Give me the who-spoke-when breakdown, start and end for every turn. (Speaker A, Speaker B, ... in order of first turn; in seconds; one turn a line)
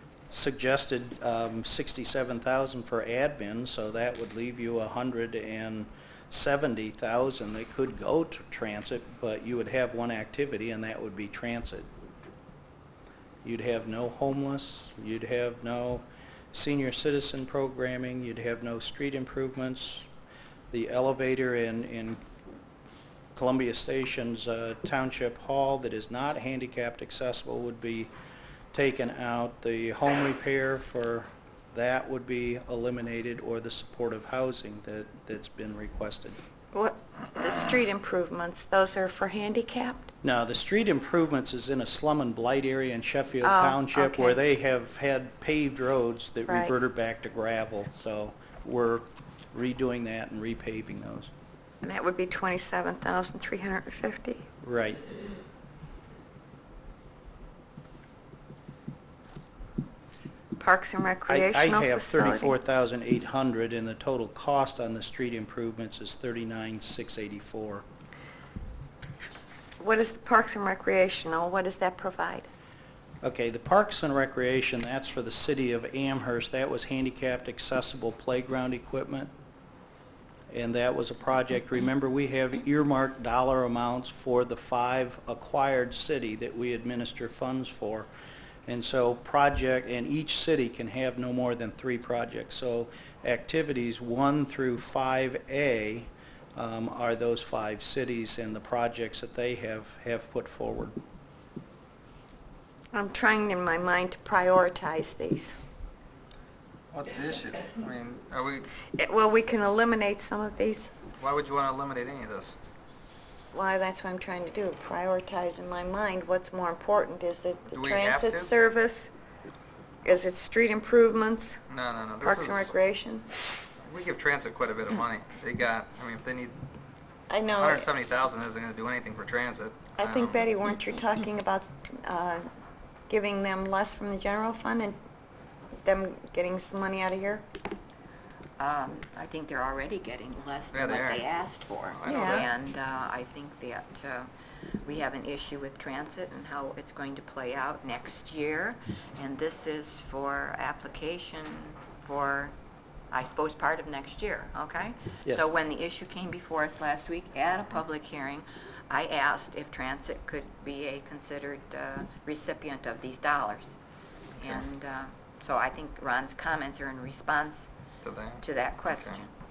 Speaker A: 0.3-11.9
Speaker A: 13.4-20.1
Speaker A: 20.7-22.2
Speaker A: 23.3-28.1
Speaker A: 28.7-36.4
Speaker B: 36.7-40.1
Speaker A: 40.2-51.3
Speaker B: 43.4-44.4
Speaker B: 46.5-46.7
Speaker B: 51.8-54.5
Speaker A: 54.6-55.0
Speaker B: 60.6-62.5
Speaker A: 61.3-67.8
Speaker B: 69.8-72.5
Speaker A: 73.2-79.3
Speaker A: 80.5-88.1
Speaker A: 88.7-101.0
Speaker B: 102.9-105.6
Speaker C: 106.9-108.7
Speaker B: 109.0-110.9
Speaker C: 111.2-112.5
Speaker B: 113.5-119.1
Speaker C: 117.7-118.5
Speaker B: 120.0-121.6
Speaker C: 121.7-122.7
Speaker B: 122.2-123.3
Speaker C: 123.8-126.5
Speaker B: 127.3-127.9
Speaker C: 127.5-130.4
Speaker B: 130.0-132.5
Speaker B: 133.1-134.9
Speaker B: 135.8-137.4
Speaker D: 138.6-152.5
Speaker C: 140.7-141.3
Speaker C: 141.9-142.5
Speaker B: 142.1-142.4
Speaker D: 153.1-163.7
Speaker D: 164.4-167.7
Speaker C: 168.0-169.2
Speaker D: 168.4-169.3